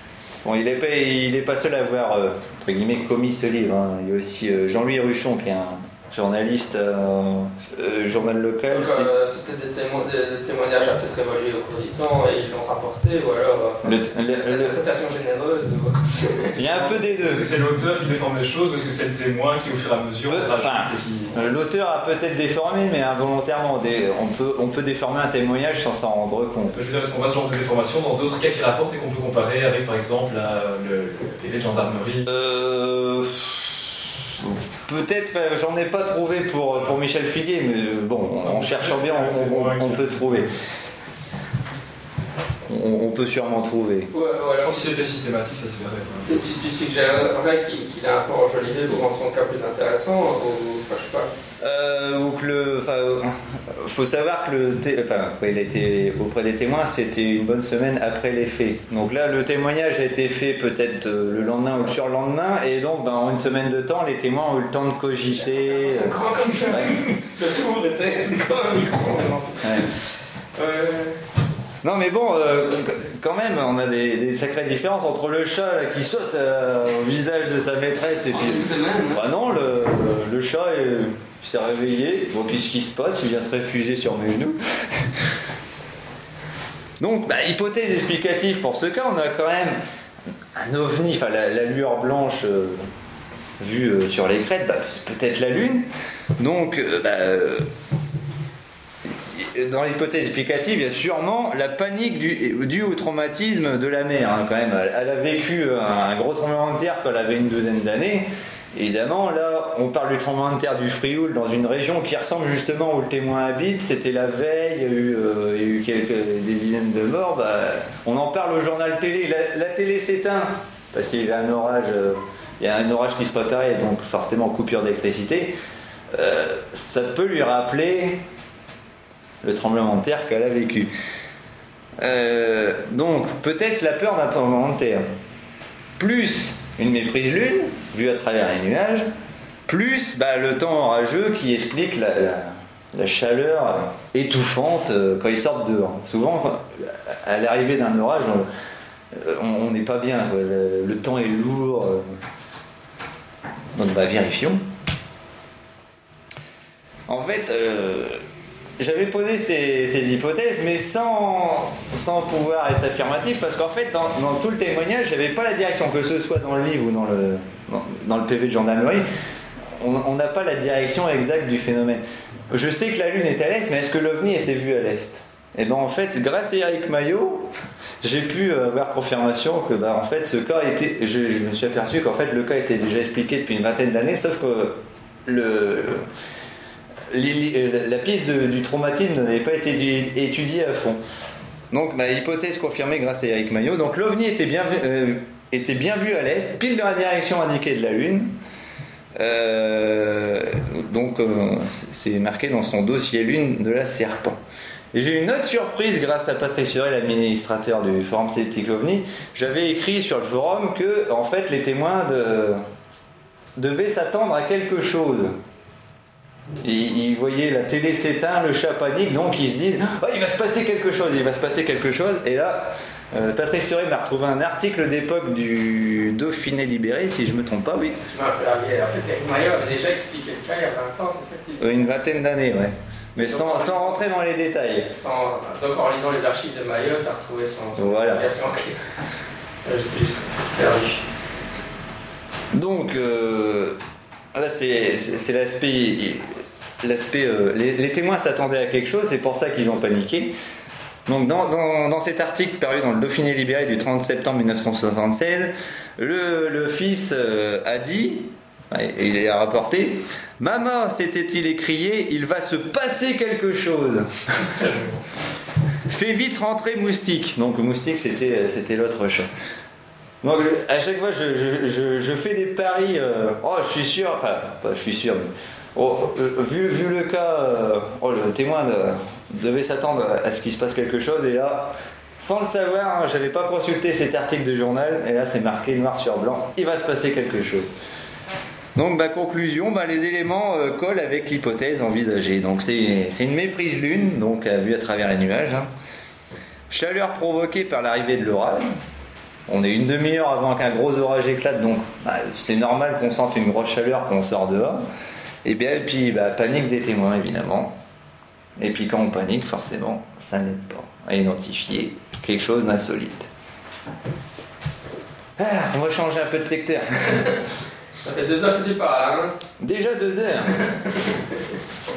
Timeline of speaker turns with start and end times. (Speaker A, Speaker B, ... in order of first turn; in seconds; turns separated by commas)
Speaker A: 0.4-9.1, Speaker B: 8.7-16.7, Speaker A: 13.8-14.8, Speaker A: 16.6-17.5, Speaker C: 16.9-21.4, Speaker A: 20.3-26.8, Speaker C: 26.7-32.3, Speaker A: 32.3-40.5, Speaker C: 38.4-40.5, Speaker A: 42.7-44.1, Speaker B: 44.1-44.9, Speaker C: 44.6-46.4, Speaker B: 46.3-51.3, Speaker A: 51.6-67.0, Speaker B: 65.5-70.0, Speaker B: 70.6-71.2, Speaker A: 71.8-85.1, Speaker B: 78.3-79.2, Speaker A: 87.0-89.8, Speaker A: 90.6-92.8, Speaker A: 93.6-95.9, Speaker A: 96.4-97.7, Speaker A: 99.3-125.5, Speaker A: 126.1-128.2, Speaker A: 129.4-130.9, Speaker A: 132.0-135.0, Speaker A: 136.0-139.1, Speaker A: 139.7-148.5, Speaker A: 149.1-152.0, Speaker A: 153.8-154.6, Speaker A: 157.1-158.2, Speaker A: 158.8-169.0, Speaker A: 169.8-177.5, Speaker A: 178.0-186.0, Speaker A: 187.1-191.0, Speaker A: 191.7-198.3, Speaker A: 199.2-204.4, Speaker A: 204.9-212.6, Speaker A: 213.6-215.3, Speaker A: 216.6-228.0, Speaker B: 228.0-231.8, Speaker A: 231.6-234.9, Speaker B: 233.2-234.1, Speaker B: 234.9-238.8, Speaker A: 237.8-238.3, Speaker B: 239.7-241.0, Speaker A: 242.5-243.8, Speaker A: 244.3-250.3, Speaker A: 251.1-264.3, Speaker A: 265.9-269.3, Speaker A: 270.2-287.7, Speaker A: 288.8-295.7, Speaker A: 296.7-298.7, Speaker A: 299.5-304.8, Speaker A: 305.4-307.8, Speaker A: 308.6-313.3, Speaker A: 315.4-317.3, Speaker B: 318.0-319.4, Speaker A: 319.6-320.6